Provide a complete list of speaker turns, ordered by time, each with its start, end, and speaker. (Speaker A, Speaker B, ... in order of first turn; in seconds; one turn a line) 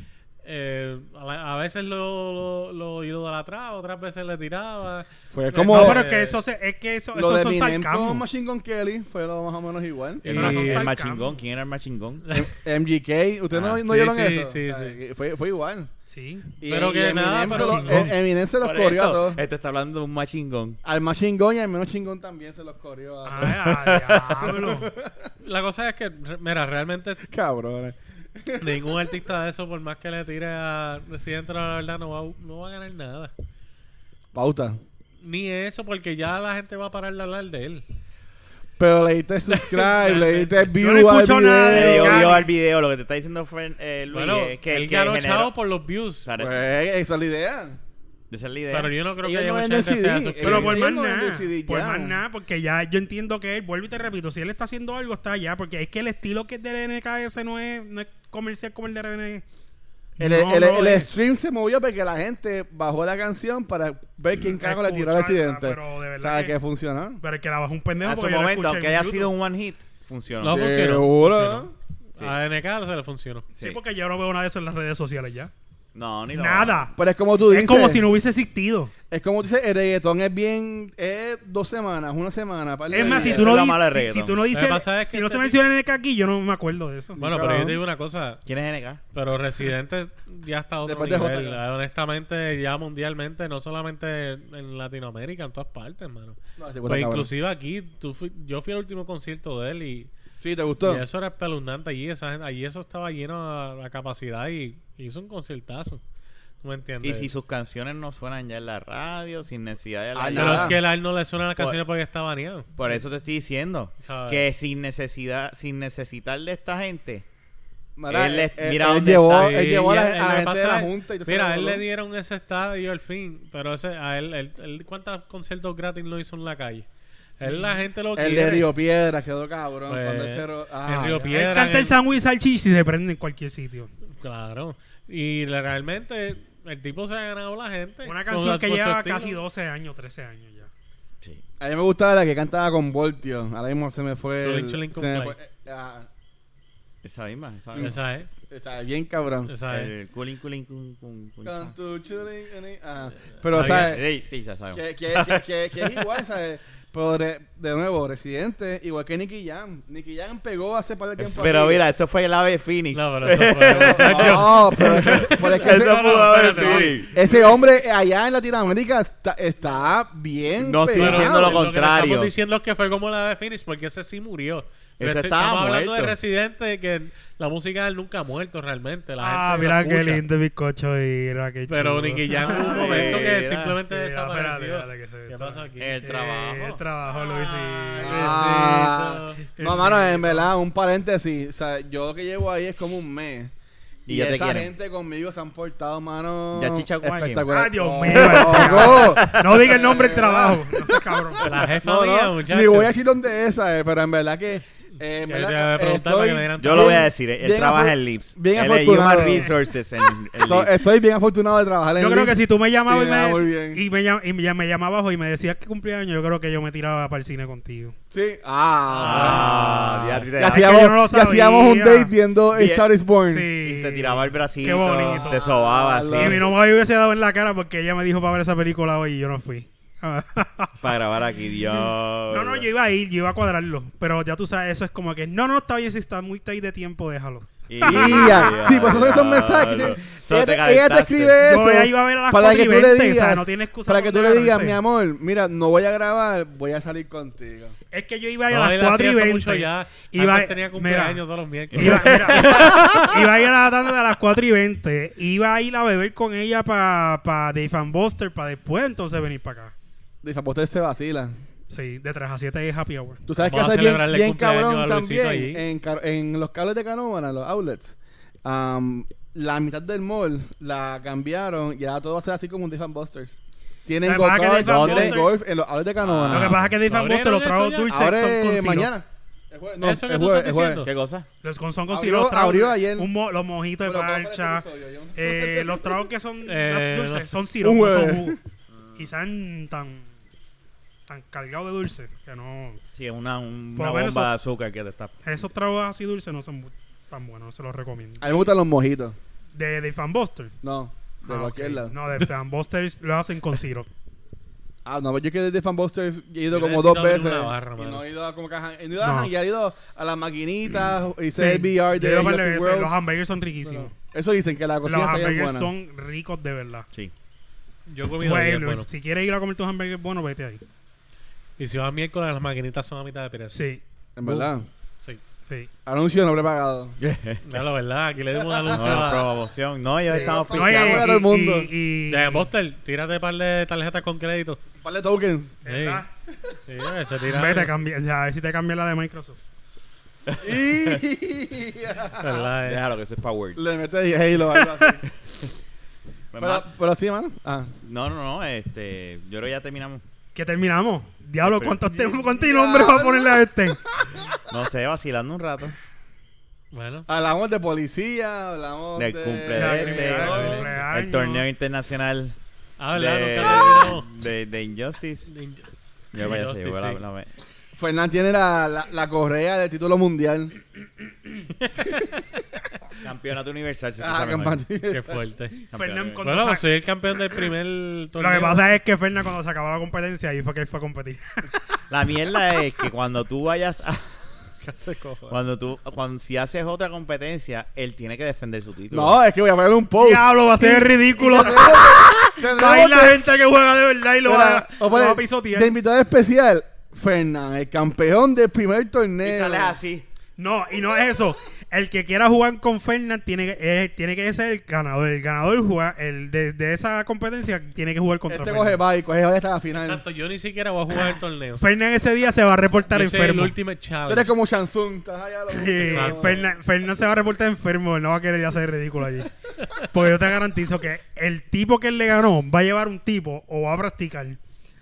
Speaker A: 0.4-6.4
Speaker B: 5.3-6.0
Speaker C: 5.7-8.2
Speaker B: 7.1-10.8
Speaker D: 10.2-12.4
Speaker A: 10.2-10.8
Speaker C: 10.3-11.3
Speaker B: 12.3-15.9
Speaker A: 13.8-14.9
Speaker C: 16.1-16.6
Speaker B: 16.6-19.4
Speaker A: 16.7-18.1
Speaker C: 17.5-18.1
Speaker D: 18.6-20.8
Speaker B: 20.8-23.7
Speaker C: 23.2-24.9
Speaker D: 23.6-24.5
Speaker B: 24.6-25.3
Speaker A: 25.4-27.2
Speaker B: 27.3-29.1
Speaker A: 28.6-33.3
Speaker B: 34.3-34.8
Speaker A: 35.2-37.8
Speaker B: 38.8-42.4
Speaker A: 39.5-40.7
Speaker C: 40.8-42.5
Speaker D: 41.7-45.5
Speaker A: 44.1-46.3
Speaker D: 46.2-46.6
Speaker B: 46.4-47.8
Speaker D: 48.3-48.9
Speaker A: 48.7-50.8
Speaker B: 49.2-52.2
Speaker C: 50.4-59.4
Speaker C: 60.2-61.1
Speaker B: 60.2-67.2
Speaker C: 64.5-66.5
Speaker C: 67.2-69.3
Speaker D: 68.0-70.7
Speaker A: 70.4-73.5
Speaker B: 70.5-71.7
Speaker C: 73.6-75.5
Speaker D: 75.9-76.8
Speaker C: 76.3-76.9
Speaker B: 76.9-78.0
Speaker C: 77.5-78.9
Speaker B: 79.1-83.6
Speaker C: 82.9-87.2
Speaker D: 82.9-84.4
Speaker A: 84.5-85.6
Speaker B: 87.2-87.8
Speaker A: 87.2-88.4
Speaker D: 88.5-89.0
Speaker A: 89.1-100.1
Speaker B: 90.8-91.6
Speaker B: 96.6-97.3
Speaker B: 100.4-101.0
Speaker A: 100.8-106.0
Speaker A: 106.6-107.3
Speaker D: 107.0-110.8
Speaker B: 110.1-110.8
Speaker A: 110.3-112.7
Speaker D: 112.8-117.2
Speaker A: 114.0-114.4
Speaker B: 118.0-121.8
Speaker D: 118.1-119.6
Speaker A: 119.3-126.9
Speaker A: 127.4-128.7
Speaker B: 127.5-131.5
Speaker A: 129.9-132.0
Speaker C: 131.3-133.9
Speaker A: 134.1-139.4
Speaker C: 138.0-140.7
Speaker B: 141.6-146.1
Speaker A: 144.4-145.3
Speaker D: 147.0-148.2
Speaker B: 147.7-149.5
Speaker A: 147.8-148.2
Speaker A: 149.5-149.9
Speaker D: 149.7-151.7
Speaker B: 151.4-154.1
Speaker A: 153.4-153.9
Speaker D: 153.5-156.0
Speaker B: 154.7-161.8
Speaker D: 161.2-167.2
Speaker A: 162.9-167.6
Speaker B: 163.7-171.6
Speaker D: 170.6-172.3
Speaker A: 170.9-180.2
Speaker D: 175.0-176.2
Speaker C: 179.2-183.3
Speaker A: 181.7-186.0
Speaker D: 182.3-183.8
Speaker C: 183.9-188.4
Speaker D: 185.8-186.8
Speaker A: 187.2-189.4
Speaker B: 188.0-193.5
Speaker C: 189.6-190.5
Speaker D: 194.1-194.7
Speaker B: 194.1-209.5
Speaker D: 196.5-197.4
Speaker C: 197.5-201.5
Speaker D: 198.0-199.6
Speaker A: 201.4-203.0
Speaker A: 205.3-207.1
Speaker D: 206.6-210.7
Speaker B: 210.4-213.8
Speaker C: 212.0-217.9
Speaker B: 218.1-223.5
Speaker A: 218.9-219.6
Speaker D: 219.0-220.8
Speaker C: 220.5-222.1
Speaker D: 222.5-222.9
Speaker C: 223.2-225.4
Speaker D: 223.6-226.4
Speaker B: 225.1-226.5
Speaker C: 226.1-230.8
Speaker D: 230.8-232.7
Speaker C: 232.3-238.5
Speaker D: 237.7-241.4
Speaker B: 237.8-247.8
Speaker C: 241.4-244.8
Speaker C: 247.9-259.7
Speaker A: 248.5-253.2
Speaker D: 252.3-252.8
Speaker B: 260.2-261.3
Speaker C: 261.7-263.2
Speaker B: 263.3-276.6
Speaker A: 263.4-265.6
Speaker C: 274.0-275.3
Speaker D: 274.6-275.2
Speaker D: 276.0-276.7
Speaker C: 276.3-278.9
Speaker A: 276.9-277.9
Speaker B: 277.9-280.8
Speaker A: 279.8-280.9
Speaker D: 280.8-281.3
Speaker C: 281.4-284.6
Speaker B: 281.9-283.1
Speaker B: 283.8-286.0
Speaker C: 285.1-288.4
Speaker A: 286.4-287.4
Speaker B: 287.6-288.4
Speaker D: 288.7-289.1
Speaker C: 288.9-290.1
Speaker C: 291.1-292.8
Speaker D: 292.9-295.1
Speaker C: 293.8-294.3
Speaker C: 295.2-298.2
Speaker B: 298.2-299.1
Speaker C: 299.5-300.5
Speaker B: 300.6-301.9
Speaker C: 301.3-303.9
Speaker B: 304.8-312.9
Speaker A: 306.5-308.0
Speaker C: 309.0-309.3
Speaker C: 311.3-313.9
Speaker B: 313.6-315.7
Speaker C: 314.8-316.9
Speaker A: 317.9-318.9
Speaker C: 318.2-320.6
Speaker A: 321.6-323.6
Speaker C: 323.5-324.5
Speaker B: 324.1-324.7
Speaker B: 325.9-326.9
Speaker D: 327.0-327.4
Speaker A: 327.4-329.3
Speaker B: 328.4-329.2
Speaker D: 328.7-331.1
Speaker B: 330.0-331.7
Speaker C: 330.5-332.5
Speaker A: 332.1-334.6
Speaker B: 334.8-335.6
Speaker C: 335.6-336.1
Speaker A: 335.7-336.1
Speaker A: 336.7-337.7
Speaker C: 337.3-339.4
Speaker B: 340.4-342.5
Speaker A: 342.2-342.8
Speaker D: 342.6-343.6
Speaker B: 343.6-345.1
Speaker D: 346.3-346.6
Speaker B: 346.4-347.7
Speaker D: 347.8-350.0
Speaker C: 350.3-353.8
Speaker D: 351.4-351.8
Speaker B: 351.9-354.5
Speaker D: 354.5-355.8
Speaker A: 356.7-357.1
Speaker B: 357.1-360.7
Speaker D: 359.0-362.3
Speaker C: 359.5-361.4
Speaker A: 362.8-364.1
Speaker D: 362.9-365.3
Speaker A: 365.3-365.6
Speaker D: 366.1-367.3
Speaker A: 366.2-367.0
Speaker B: 367.8-370.5
Speaker B: 371.8-372.3
Speaker D: 373.0-374.6
Speaker B: 374.0-375.2
Speaker A: 374.9-375.6
Speaker D: 375.7-376.2
Speaker C: 375.7-376.7
Speaker A: 376.2-378.6
Speaker C: 378.1-381.5
Speaker D: 381.9-384.0
Speaker B: 384.6-385.4
Speaker D: 385.3-389.2
Speaker B: 388.9-393.2
Speaker C: 390.0-395.8
Speaker B: 394.2-399.8
Speaker D: 399.2-400.0
Speaker C: 400.4-408.8
Speaker B: 408.3-410.0
Speaker A: 409.8-411.6
Speaker C: 411.6-413.6
Speaker A: 412.9-414.3
Speaker B: 414.1-416.5
Speaker C: 415.5-424.4
Speaker A: 415.8-416.3